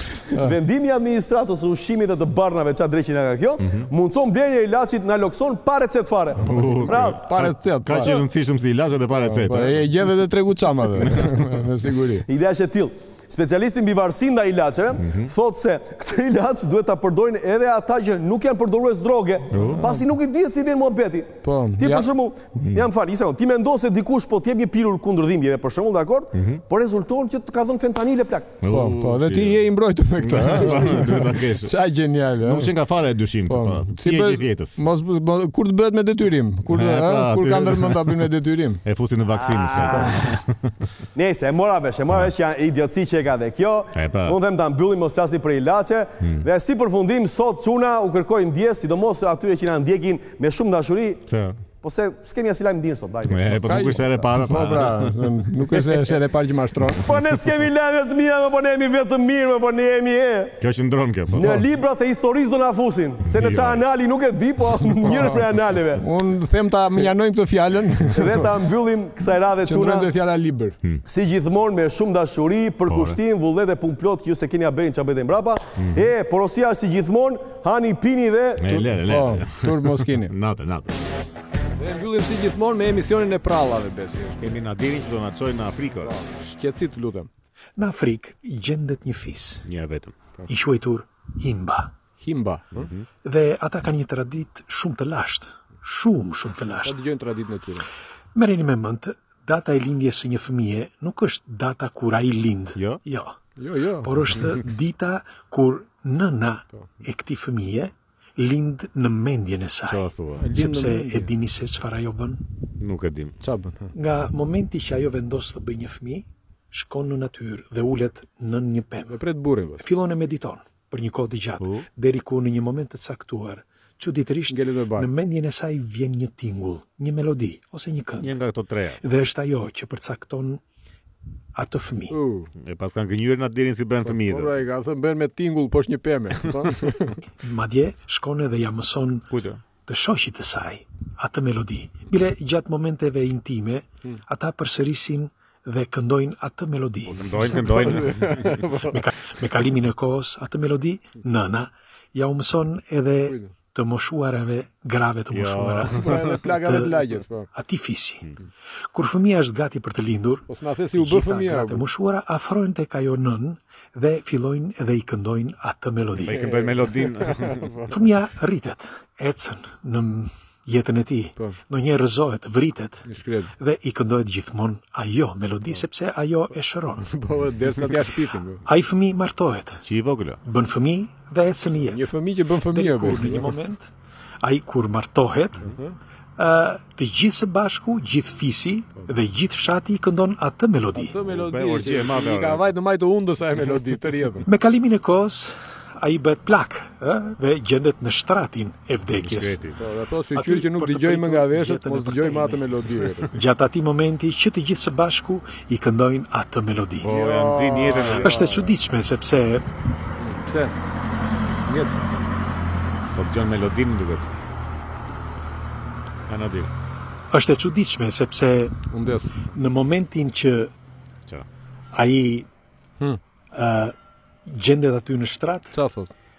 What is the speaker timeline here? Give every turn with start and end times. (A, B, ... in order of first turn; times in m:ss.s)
0:00.3-0:07.2 A
0:06.5-0:08.2 B
0:06.5-0:09.9 C
0:09.1-0:12.2 B
0:11.0-0:11.4 C
0:12.2-0:28.5 A
0:15.0-0:15.3 C
0:19.5-0:19.9 C
0:19.6-0:20.0 B
0:21.4-0:22.1 B
0:22.6-0:22.9 C
0:26.3-0:26.6 C
0:28.6-0:29.7 C
0:28.7-0:32.7 B
0:30.2-0:31.7 C
0:30.7-0:31.0 A
0:32.4-0:34.8 C
0:33.5-0:38.8 B
0:36.7-0:38.3 C
0:38.8-0:40.7 C
0:39.4-0:40.4 A
0:39.9-0:40.1 B
0:41.1-0:51.2 A
0:43.9-0:44.4 C
0:51.3-0:51.6 C
0:51.8-0:54.3 A
0:53.2-0:55.2 C
0:53.7-0:57.0 B
0:57.0-1:00.6 A
1:00.6-1:01.5 C
1:01.3-1:06.0 A
1:01.4-1:01.6 B
1:03.2-1:03.8 C
1:05.0-1:05.4 B
1:06.0-1:08.5 B
1:08.1-1:10.1 A
1:09.6-1:10.8 B
1:11.0-1:18.9 A
1:12.9-1:13.2 C
1:15.8-1:16.1 C
1:18.6-1:21.0 C
1:19.0-1:20.3 B
1:21.8-1:24.4 B
1:24.4-1:26.2 C
1:26.0-1:27.3 B
1:27.8-1:29.7 D
1:29.6-1:30.2 C
1:30.5-1:31.9 D
1:32.2-1:32.9 B
1:32.7-1:33.1 C
1:33.2-1:37.0 D
1:36.8-1:37.9 B
1:38.3-1:43.4 D
1:42.7-1:43.0 C
1:43.6-1:44.4 B
1:44.0-1:52.4 D
1:49.8-1:50.5 C
1:50.4-1:51.3 B
1:52.8-1:53.4 C
1:53.4-1:53.9 B
1:53.9-1:59.2 D
1:59.1-1:59.8 B
1:59.8-2:08.4 D
2:01.6-2:01.9 C
2:04.5-2:05.1 B
2:08.2-2:09.0 C
2:09.0-2:10.6 D
2:11.5-2:12.2 D
2:12.1-2:12.5 B
2:12.6-2:14.5 C
2:14.0-2:17.2 B
2:17.4-2:19.3 D
2:19.3-2:19.6 C
2:19.8-2:27.6 D
2:27.0-2:28.8 C
2:27.4-2:29.0 B
2:28.9-2:38.4 D
2:33.2-2:33.5 B
2:35.3-2:36.3 C
2:35.9-2:37.5 B
2:38.9-2:46.5 D
2:40.5-2:41.8 B
2:46.2-2:47.8 C
2:46.3-2:47.9 B
2:47.9-2:53.1 D
2:53.0-2:53.5 B
2:53.6-2:57.2 D
2:57.1-2:58.6 B
2:58.6-2:59.8 D
2:59.8-3:00.4 C
3:00.4-3:03.9 D
3:01.9-3:03.5 B
3:04.4-3:05.6 D
3:05.6-3:06.0 B
3:06.4-3:11.1 D
3:11.0-3:14.4 B
3:11.2-3:12.7 C
3:14.4-3:19.7 D
3:19.1-3:19.8 C
3:19.8-3:23.3 B
3:20.3-3:27.1 D
3:27.0-3:28.5 C
3:27.0-3:28.7 B
3:28.2-3:29.7 D
3:30.2-3:30.7 B
3:31.6-3:32.0 B
3:33.1-3:34.4 C
3:36.3-3:36.7 C
3:37.3-3:38.8 D
3:38.9-3:39.4 B
3:39.4-3:40.7 D
3:41.9-3:42.5 D
3:43.5-3:43.9 D
3:44.4-3:45.8 D
3:45.7-3:46.1 B